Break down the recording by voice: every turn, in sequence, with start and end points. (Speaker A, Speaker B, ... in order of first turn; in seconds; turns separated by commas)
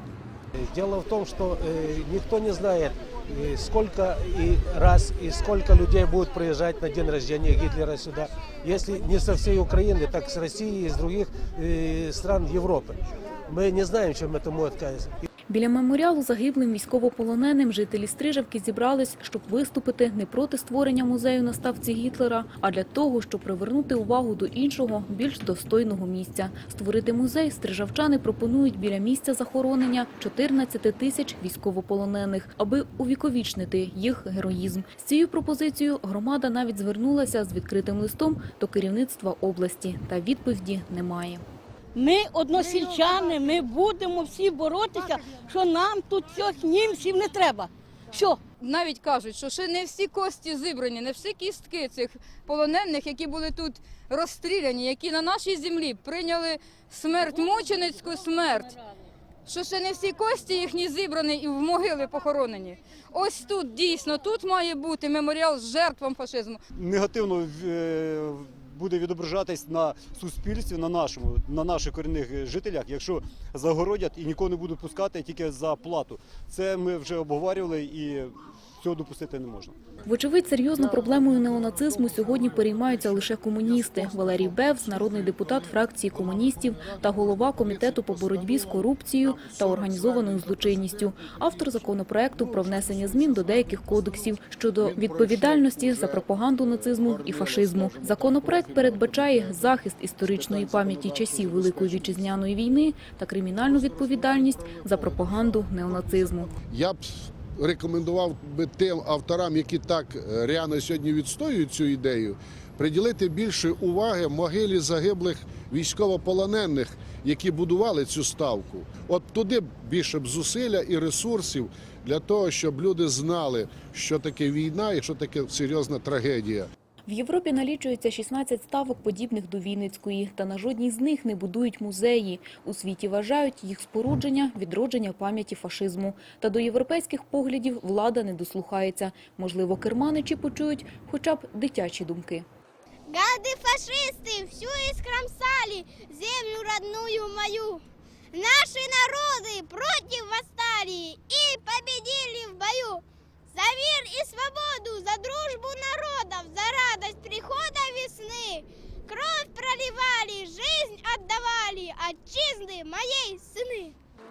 Speaker A: 0.6-15.2, Speaker B: 15.5-41.4, Speaker C: 42.0-48.4, Speaker D: 48.6-58.8, Speaker D: 59.5-66.6, Speaker E: 66.8-79.8, Speaker B: 80.1-106.5, Speaker F: 80.9-85.7, Speaker F: 86.4-88.8, Speaker F: 89.4-91.2, Speaker F: 92.4-99.5, Speaker F: 100.3-102.3, Speaker F: 103.8-104.2, Speaker F: 104.8-126.7, Speaker B: 127.1-142.5, Speaker G: 143.1-147.8, Speaker G: 148.3-163.9